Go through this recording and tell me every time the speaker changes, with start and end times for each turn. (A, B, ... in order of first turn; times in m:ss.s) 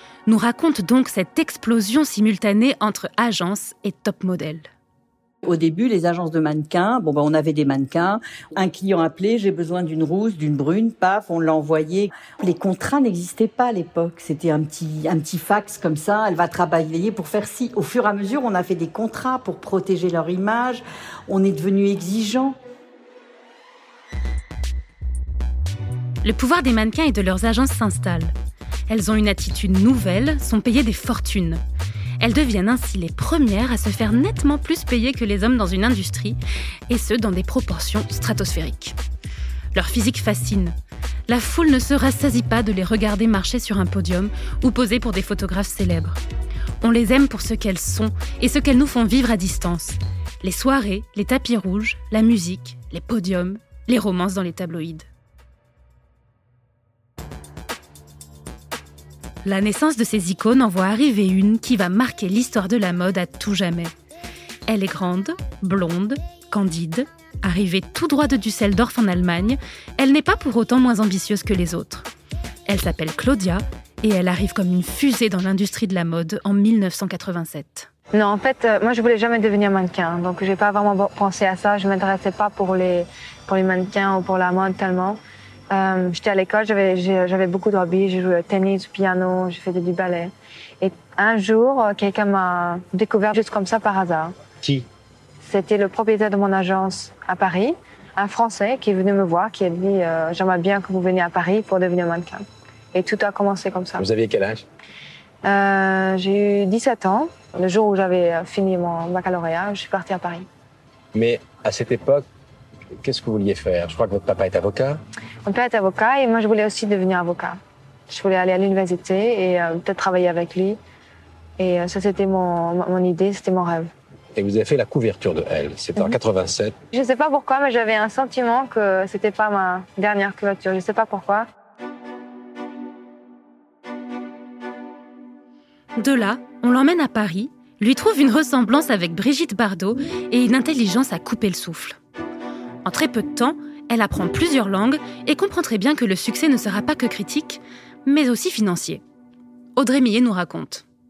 0:00.2-0:04.7 A
0:05.4-0:22.6 B
0:26.2-0:28.3 A
0:28.9-0:31.6 A
0:32.2-0:39.0 A
0:39.7-0:40.8 A
0:41.3-0:46.2 A
0:46.8-0:55.0 A
0:59.4-1:03.9 A
1:04.7-1:12.1 A
1:12.7-1:17.9 A
1:18.1-1:25.2 C
1:25.7-1:34.4 C
1:35.4-1:44.0 C
1:44.0-1:44.6 D
1:45.4-1:50.5 C
1:51.1-1:52.2 D
1:53.0-1:55.0 D
1:55.5-2:00.8 C
2:01.6-2:03.9 C
2:04.4-2:06.8 D
2:06.9-2:11.5 C
2:16.0-2:22.0 A
2:22.8-2:29.0 A
2:29.8-2:30.8 A